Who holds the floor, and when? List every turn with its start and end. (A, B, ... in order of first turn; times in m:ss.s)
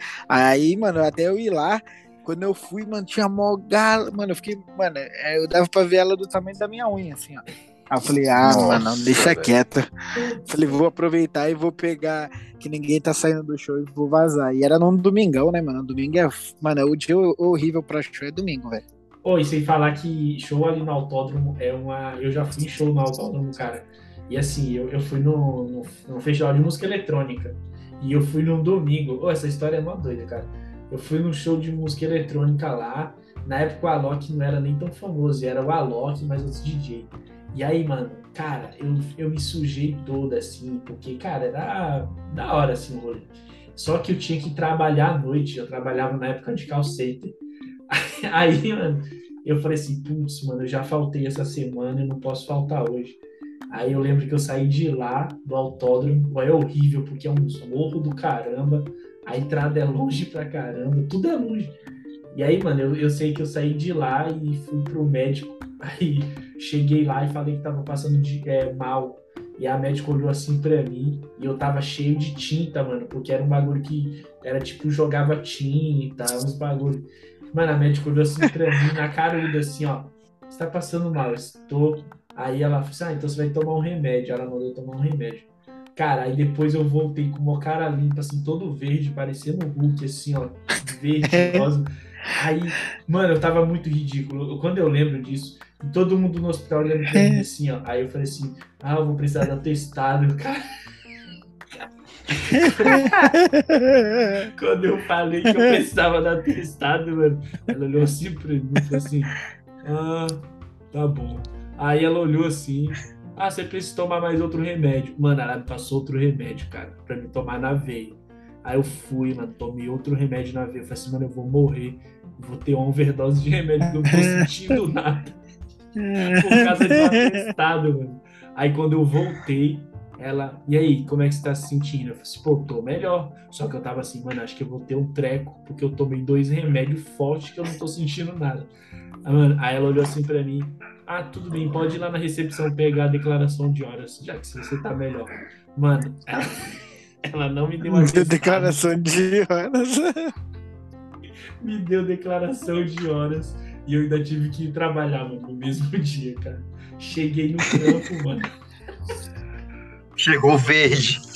0:00.3-0:09.9 A
0:08.4-0:09.5 B
0:10.2-0:10.5 C
0:10.4-0:18.8 A
0:19.2-0:47.4 C
0:47.9-0:53.2 C
0:53.7-1:01.7 C
1:02.3-1:40.6 C
1:31.3-1:31.7 A
1:37.1-1:37.4 A
1:42.3-1:43.2 C
1:42.6-1:44.5 A
1:44.5-2:05.4 C
1:45.5-1:45.8 A
2:04.1-2:04.5 A
2:06.0-2:07.4 A
2:06.3-2:18.7 C
2:19.2-2:28.9 C
2:27.8-2:30.3 A
2:31.6-2:38.5 C
2:40.2-2:41.2 B